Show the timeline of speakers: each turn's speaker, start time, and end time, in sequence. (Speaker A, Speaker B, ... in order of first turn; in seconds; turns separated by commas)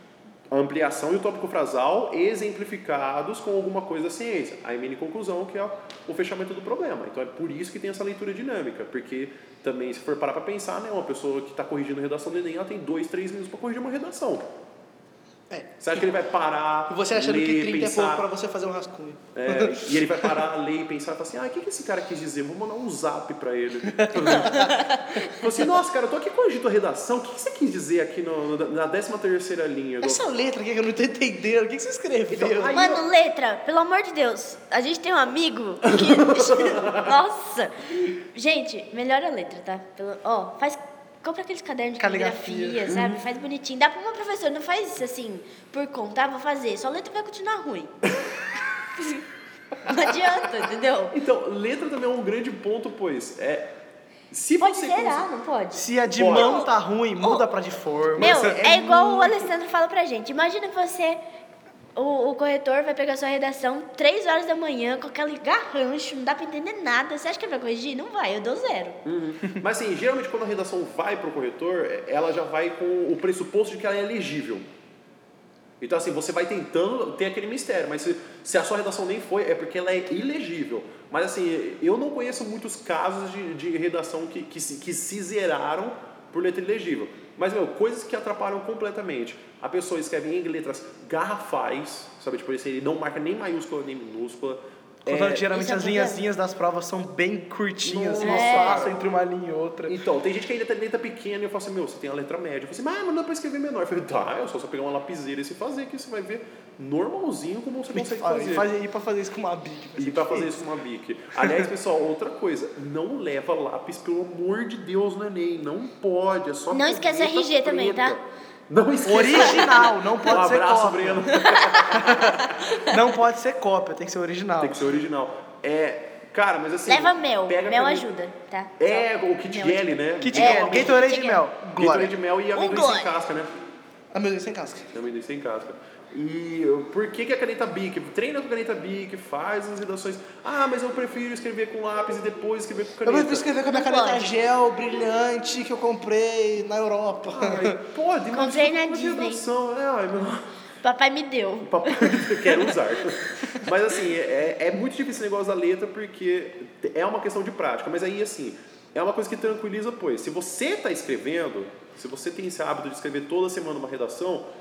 Speaker A: 0.5-14.4, Speaker B: 15.5-16.0, Speaker A: 15.8-18.3, Speaker B: 16.9-20.4, Speaker A: 19.3-30.3, Speaker B: 23.9-24.7, Speaker C: 24.4-25.3, Speaker B: 30.0-32.8, Speaker A: 32.3-33.0, Speaker C: 32.7-47.9, Speaker A: 35.9-37.1, Speaker B: 42.0-42.9, Speaker A: 42.9-43.2, Speaker C: 49.0-49.2, Speaker C: 49.8-51.1, Speaker A: 51.1-53.7, Speaker A: 54.3-55.2, Speaker C: 54.6-56.7, Speaker B: 55.8-58.6, Speaker A: 56.1-56.6, Speaker A: 58.1-59.5, Speaker C: 58.2-61.2, Speaker C: 62.0-69.0, Speaker A: 69.0-74.7, Speaker A: 75.8-95.5, Speaker B: 95.0-100.0, Speaker C: 95.5-96.2, Speaker A: 97.8-98.9, Speaker C: 98.2-98.9, Speaker A: 99.9-108.7, Speaker B: 107.9-110.6, Speaker A: 110.0-122.4, Speaker B: 111.4-111.7, Speaker C: 116.7-118.2, Speaker B: 119.0-121.4, Speaker C: 121.3-123.1, Speaker B: 121.9-125.0, Speaker A: 124.6-128.1, Speaker C: 126.9-131.4, Speaker A: 128.8-131.0, Speaker B: 130.2-132.1, Speaker A: 131.8-133.5, Speaker C: 132.5-133.1, Speaker B: 134.1-134.9, Speaker A: 134.9-143.5, Speaker B: 143.0-147.8, Speaker C: 143.7-144.3, Speaker A: 147.3-150.5, Speaker C: 148.3-149.4, Speaker C: 150.8-152.8, Speaker A: 151.7-164.5